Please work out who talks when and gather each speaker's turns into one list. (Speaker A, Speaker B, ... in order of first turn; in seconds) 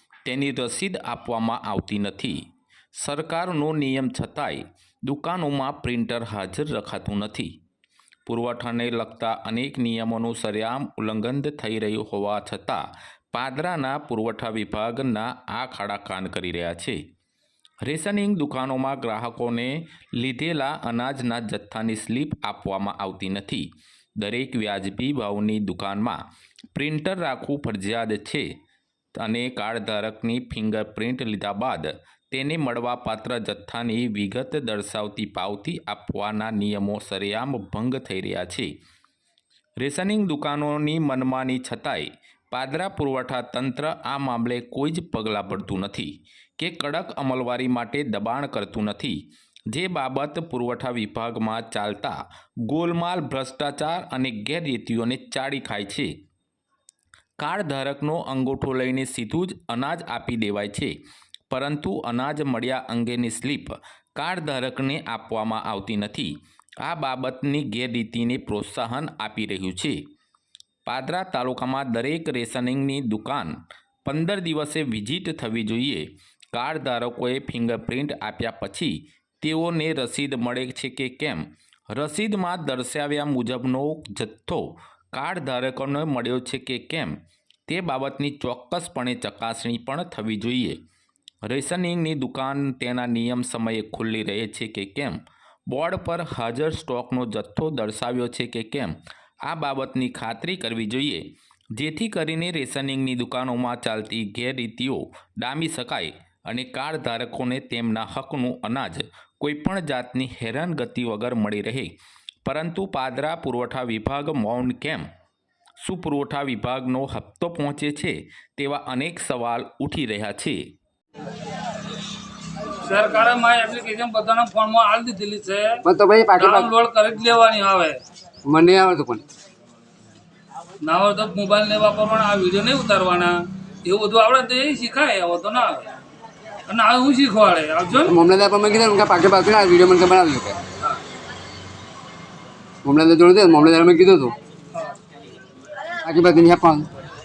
Speaker A: 0.2-2.4, 3.0-7.5, 8.3-12.8, 13.3-17.0, 17.8-23.7, 24.2-26.2, 26.7-28.5, 29.1-38.7, 39.8-49.2, 49.7-52.1, 52.7-56.1, 57.4-60.9, 61.5-66.3, 66.8-70.0, 70.8-73.5, 74.0-87.1, 87.7-90.8, 91.5-95.2, 95.7-99.0, 99.5-101.2, 101.8-111.9, 112.4-115.0, 115.8-120.6
Speaker B: 122.8-125.8, 126.4-128.0, 130.8-135.9, 136.7-138.1
Speaker C: 125.8-126.7, 128.4-129.2, 138.0-140.6, 142.8-144.3, 146.0-146.9